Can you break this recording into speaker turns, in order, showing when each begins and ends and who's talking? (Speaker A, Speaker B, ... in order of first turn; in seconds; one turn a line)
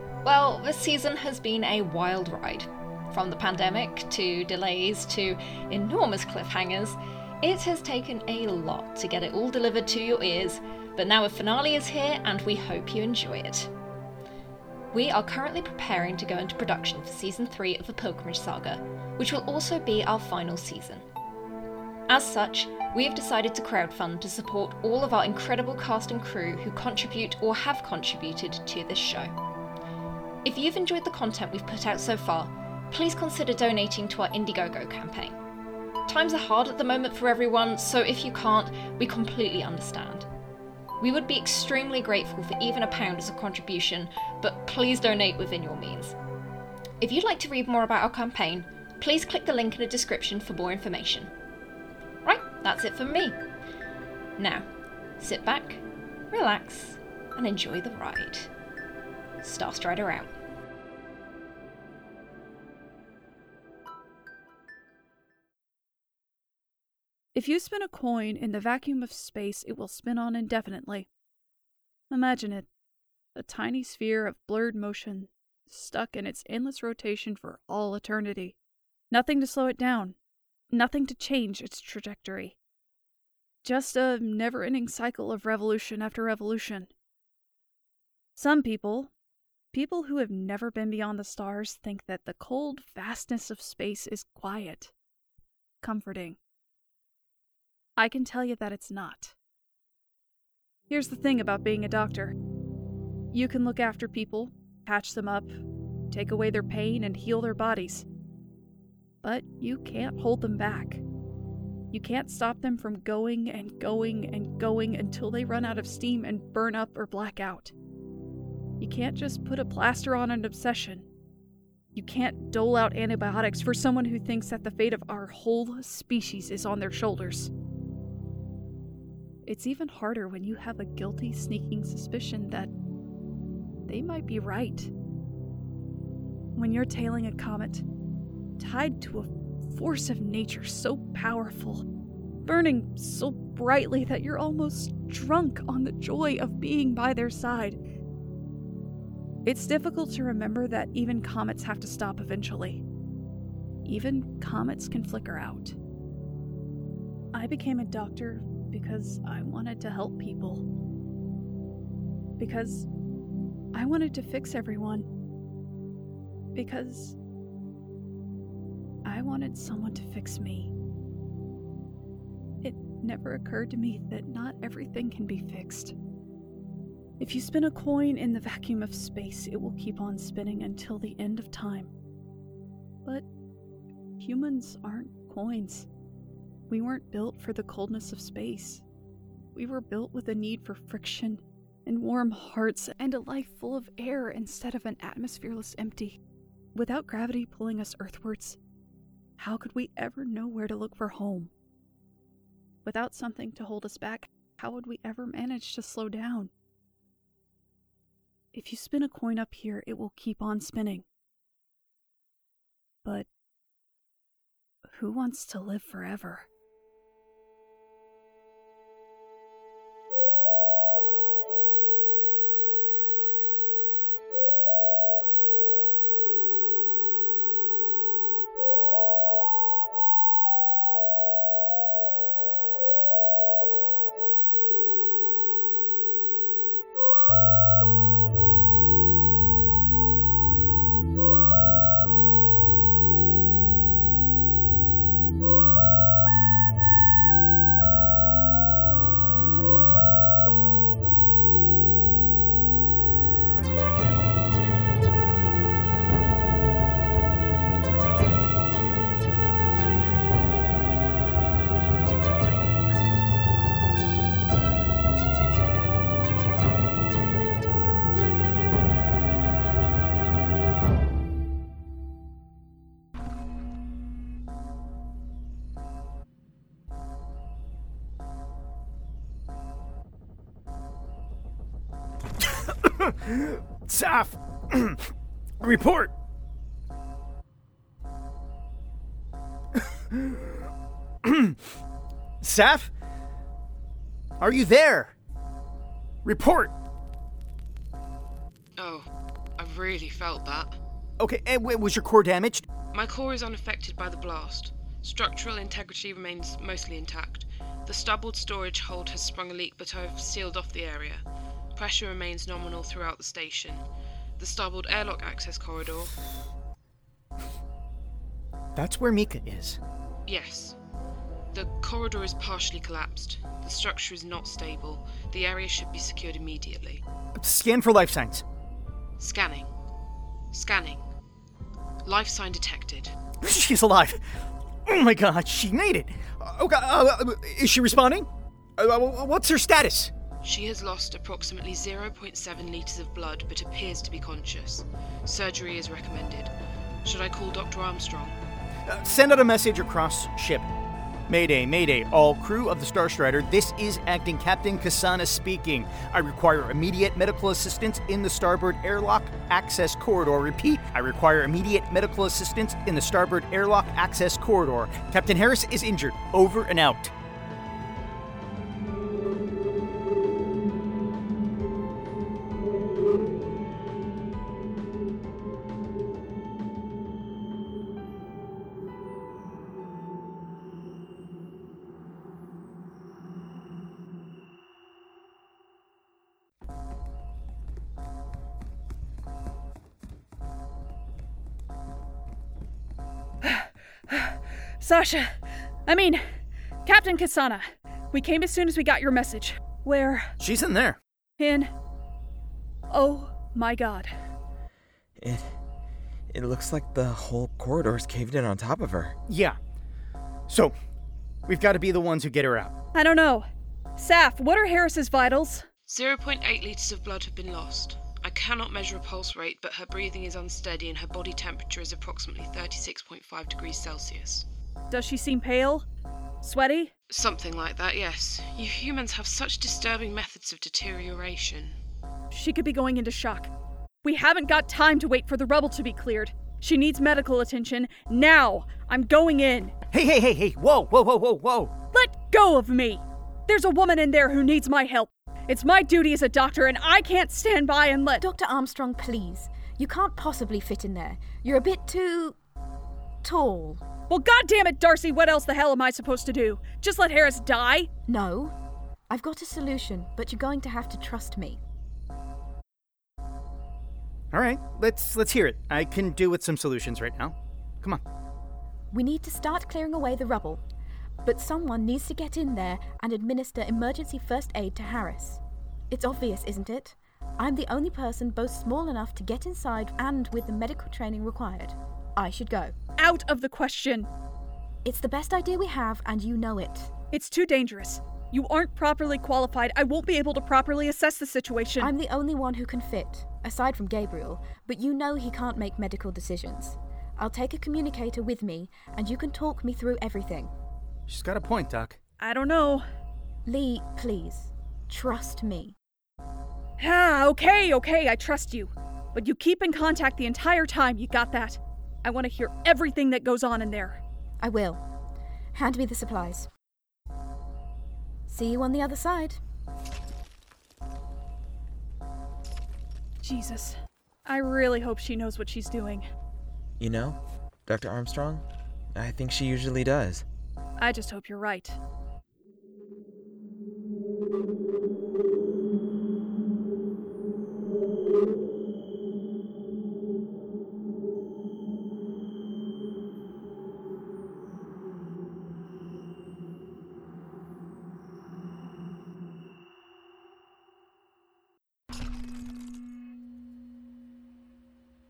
Speaker A: 0.2-13.7
Speaker A: 14.9-21.1
Speaker A: 22.1-29.3
Speaker A: 30.4-35.4
Speaker A: 36.1-40.3
Speaker A: 41.0-46.2
Speaker A: 47.0-51.3
Speaker A: 52.2-53.4
Speaker A: 54.4-54.7
Speaker A: 55.2-58.5
Speaker A: 59.4-60.3
Speaker B: 67.3-71.1
Speaker B: 72.1-72.7
Speaker B: 73.3-78.6
Speaker B: 79.1-80.2
Speaker B: 80.7-82.6
Speaker B: 83.6-86.9
Speaker B: 88.4-89.1
Speaker B: 89.7-94.9
Speaker B: 95.8-96.4
Speaker B: 98.0-99.3
Speaker B: 100.9-102.3
Speaker B: 103.3-108.1
Speaker B: 109.2-111.0
Speaker B: 111.9-117.7
Speaker B: 118.8-121.1
Speaker B: 122.0-127.5
Speaker B: 129.4-132.7
Speaker B: 133.9-134.9
Speaker B: 136.6-137.8
Speaker B: 138.6-141.8
Speaker B: 142.4-147.8
Speaker B: 149.4-152.8
Speaker B: 153.8-155.8
Speaker B: 157.3-160.7
Speaker B: 162.4-162.9
Speaker B: 163.7-165.1
Speaker B: 166.6-167.2
Speaker B: 169.1-170.7
Speaker B: 172.6-175.9
Speaker B: 177.2-181.9
Speaker B: 184.2-185.9
Speaker B: 186.7-188.8
Speaker B: 189.6-196.2
Speaker B: 196.8-198.6
Speaker B: 199.4-201.5
Speaker B: 202.8-206.5
Speaker B: 208.5-211.1
Speaker B: 214.9-216.5
Speaker C: 282.4-285.1
Speaker C: 285.6-286.1
Speaker C: 289.8-290.7
Speaker C: 291.2-291.6
Speaker C: 292.4-292.9
Speaker C: 294.4-295.1
Speaker C: 296.2-296.7
Speaker D: 298.8-300.8
Speaker C: 301.2-302.7
Speaker D: 302.9-313.9
Speaker D: 314.4-316.1
Speaker C: 318.8-319.8
Speaker D: 320.3-320.8
Speaker D: 321.5-327.0
Speaker C: 327.4-328.4
Speaker D: 329.2-329.7
Speaker D: 330.5-331.0
Speaker D: 332.1-333.1
Speaker C: 333.4-334.3
Speaker C: 334.9-340.1
Speaker D: 340.4-346.5
Speaker D: 347.0-348.4
Speaker C: 348.9-350.7
Speaker C: 351.3-367.1
Speaker B: 393.4-400.3
Speaker C: 400.4-401.0
Speaker B: 401.4-401.7
Speaker B: 402.9-404.1
Speaker E: 405.2-405.6
Speaker E: 406.3-409.2
Speaker C: 409.3-409.6
Speaker C: 410.5-410.7
Speaker C: 411.5-412.7
Speaker B: 412.9-413.5
Speaker B: 414.0-415.7
Speaker D: 415.9-424.5
Speaker B: 424.9-425.9
Speaker B: 426.4-426.9
Speaker D: 427.1-431.8
Speaker B: 432.3-433.5
Speaker B: 434.0-439.7
Speaker C: 439.9-441.7
Speaker B: 441.9-448.2
Speaker F: 448.2-452.4
Speaker F: 453.2-453.9
Speaker B: 454.1-457.9
Speaker F: 458.1-458.6
Speaker F: 459.1-461.6
Speaker C: 464.3-468.0
Speaker F: 468.9-470.6
Speaker F: 471.2-482.8
Speaker B: 483.0-484.1
Speaker F: 484.8-486.9
Speaker B: 487.1-491.9
Speaker F: 491.8-500.5
Speaker C: 501.1-502.0
Speaker B: 502.2-502.9
Speaker F: 503.4-505.8
Speaker B: 506.8-514.0
Speaker F: 514.4-514.9
Speaker F: 515.5-516.5
Speaker F: 518.3-519.4
Speaker B: 523.2-526.1
Speaker E: 526.8-530.2
Speaker B: 530.8-531.8